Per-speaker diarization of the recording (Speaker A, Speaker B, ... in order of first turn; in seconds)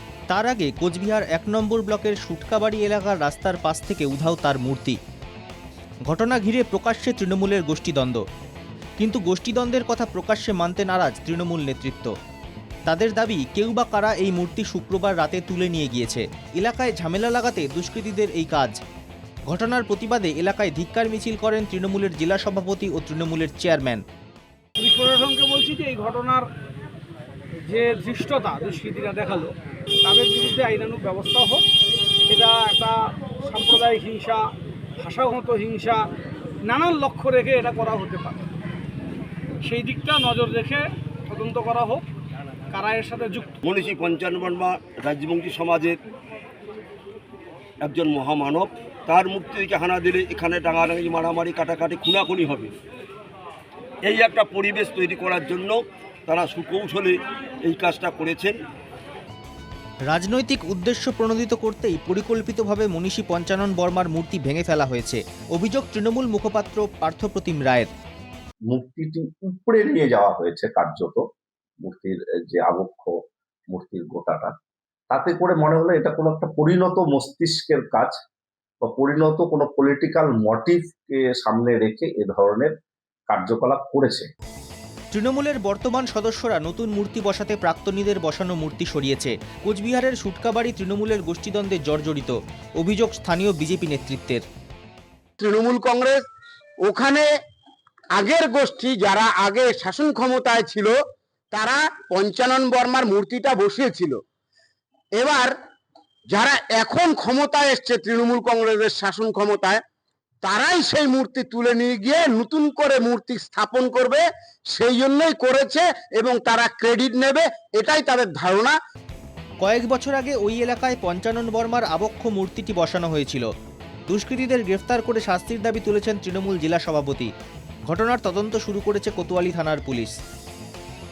Speaker A: 0.3-5.0, 6.1-8.2, 9.0-12.1, 12.9-18.8, 19.5-24.0, 60.1-67.9, 85.1-94.4, 119.6-123.5, 124.1-127.3, 127.9-130.2
Speaker B: 24.8-26.5, 27.7-29.5, 30.0-31.6, 32.3-34.4, 35.0-36.0, 36.6-38.5, 39.6-42.0, 42.7-43.6
Speaker C: 43.6-46.0, 47.8-52.7, 54.0-58.5
Speaker D: 68.7-71.2, 71.8-73.1, 73.7-74.5, 75.1-78.2, 78.8-82.7, 83.3-84.3
Speaker E: 95.4-96.2, 96.8-97.2, 98.2-100.9, 101.5-104.2, 105.2-105.5, 106.3-109.8, 110.4-118.8